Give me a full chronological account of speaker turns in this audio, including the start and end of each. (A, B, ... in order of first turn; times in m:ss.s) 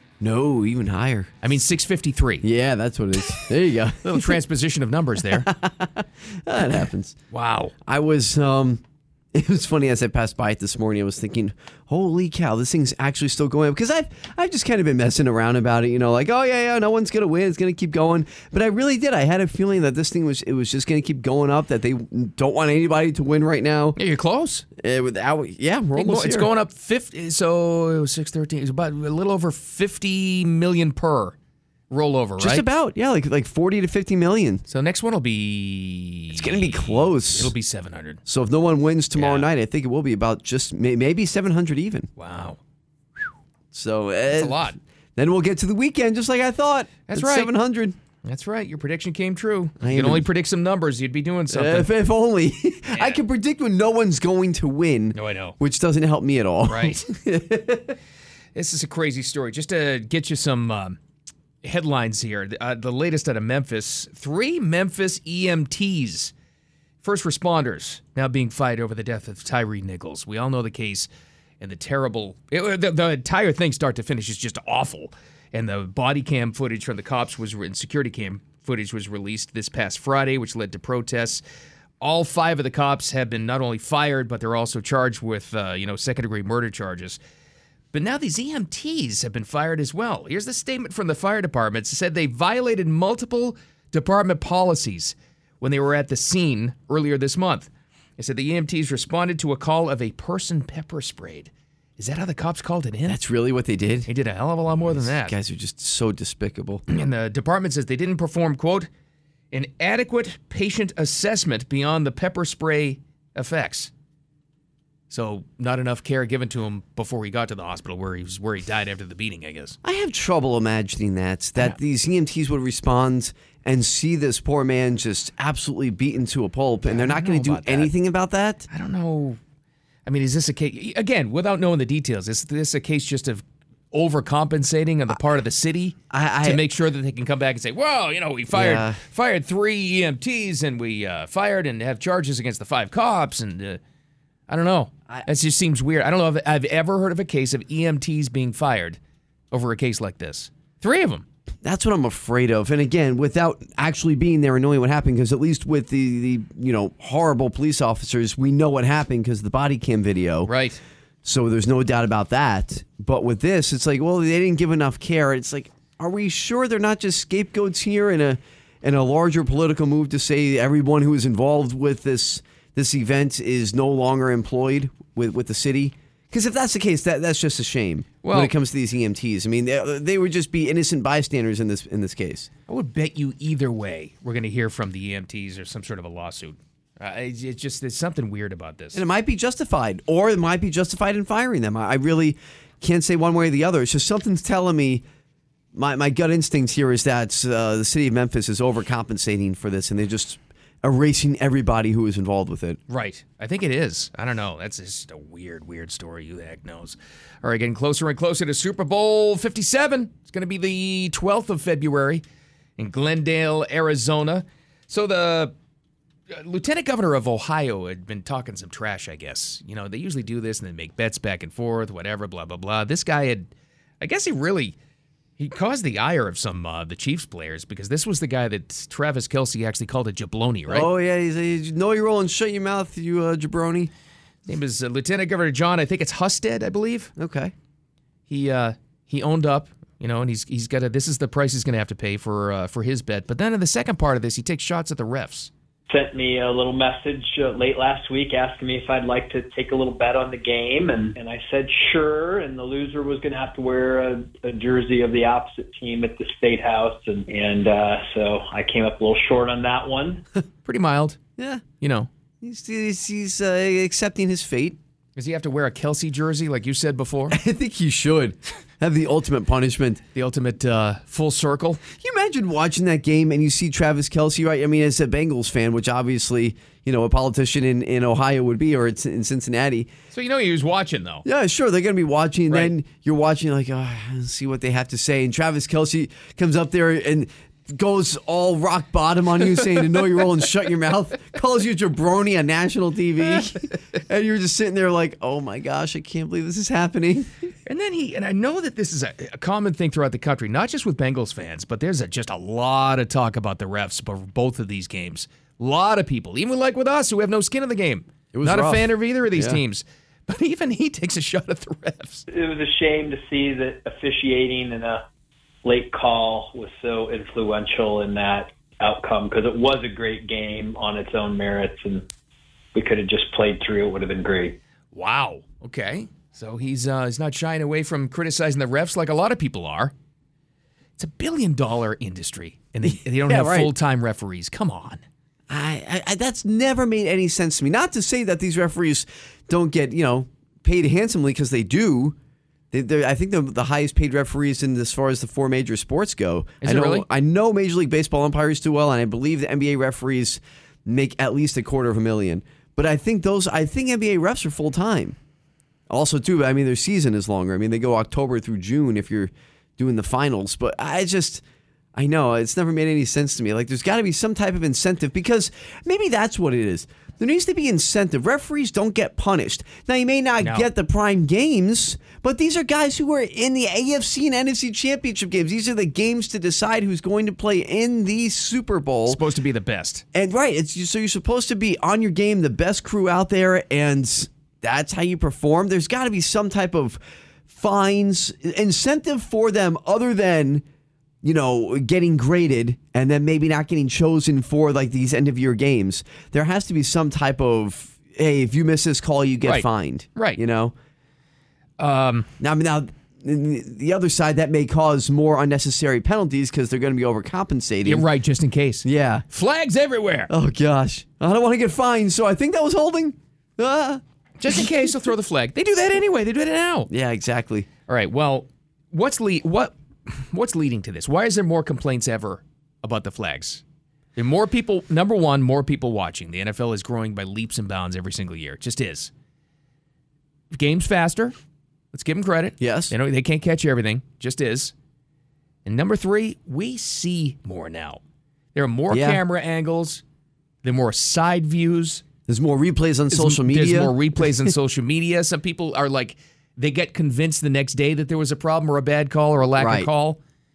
0:00.2-0:01.3 A
0:01.4-0:02.4 B
0:02.4-0:04.4 A
0:04.0-0:05.5 B
0:05.2-0:07.2 A
0:07.3-0:07.7 B
0:07.8-0:08.8 A
0:09.3-0:24.0 A
0:24.0-0:24.6 B
0:24.8-0:26.5 A
0:26.0-0:31.3 B
0:31.9-0:32.7 B
0:32.4-0:34.6 A
0:34.7-0:38.2 B
0:36.3-0:37.5 A
0:38.2-0:42.1 A
0:39.2-0:39.5 B
0:42.2-0:42.6 B
0:43.7-0:48.0 A
0:44.3-0:44.8 B
0:47.1-0:47.5 B
0:48.2-0:51.9 B
0:49.8-0:50.2 A
0:51.5-0:58.0 A
0:52.9-0:53.2 B
0:55.1-0:55.6 B
0:56.7-0:57.0 B
0:58.5-1:01.0 B
1:01.6-1:06.3 B
1:07.0-1:11.1 B
1:11.6-1:21.4 B
1:22.0-1:27.2 B
1:27.9-1:43.2 B
1:43.0-1:44.1 A
1:44.1-1:45.3 B
1:44.8-1:46.8 A
1:46.9-1:48.9 B
1:49.5-1:53.9 B
1:55.1-1:59.8 B
1:59.8-2:08.7 A
2:06.8-2:07.9 B
2:08.7-2:09.4 B
2:10.0-2:23.8 B
2:16.1-2:16.6 A
2:18.5-2:19.0 A
2:24.5-2:29.0 B
2:29.5-2:31.2 B
2:31.6-2:40.5 A
2:40.4-2:40.8 B
2:41.2-3:02.5 A
2:58.2-2:58.5 B
3:02.7-3:09.0 B
3:08.9-3:15.0 A
3:15.7-3:22.8 A
3:22.9-3:32.2 B
3:32.8-3:35.5 B
3:36.3-3:43.5 B
3:44.0-3:44.8 B
3:45.4-3:50.9 B
3:50.7-3:53.9 A
3:54.4-3:57.1 B
3:57.2-3:57.5 A
3:58.3-4:05.5 B
4:05.9-4:20.2 C
4:20.6-4:21.2 B
4:21.4-4:21.6 A
4:21.8-4:22.1 B
4:22.4-4:24.8 A
4:25.2-4:27.4 B
4:27.3-4:30.0 A
4:30.1-4:31.8 B
4:32.0-4:39.9 A
4:40.1-4:41.2 B
4:41.2-4:57.3 A
4:57.6-5:12.2 B
5:08.3-5:09.6 A
5:12.3-5:15.0 C
5:15.6-5:22.1 C
5:22.7-5:24.6 C
5:24.9-5:29.9 B
5:31.0-5:35.0 B
5:32.9-5:33.7 A
5:35.5-5:42.2 A
5:42.7-5:55.2 A
5:46.6-5:47.0 B
5:55.9-6:01.4 A
6:01.9-6:19.2 A
6:10.4-6:10.7 B
6:19.1-6:20.0 B
6:20.1-6:30.6 A
6:31.2-6:40.7 A
6:39.4-6:40.4 B
6:41.8-6:42.3 B
6:42.4-6:48.0 A
6:47.8-6:50.3 B
6:48.8-6:49.2 A
6:50.3-6:54.7 A
6:54.4-6:56.9 B
6:56.9-6:57.7 A
6:57.9-7:03.6 B
7:04.2-7:09.1 B
7:10.5-7:11.4 B
7:11.9-7:14.7 B
7:12.6-7:12.9 A
7:15.6-7:18.0 B
7:18.5-7:20.0 B
7:18.9-7:19.2 A
7:20.6-7:22.0 B
7:22.3-7:24.5 A
7:23.1-7:30.2 B
7:29.6-7:29.9 A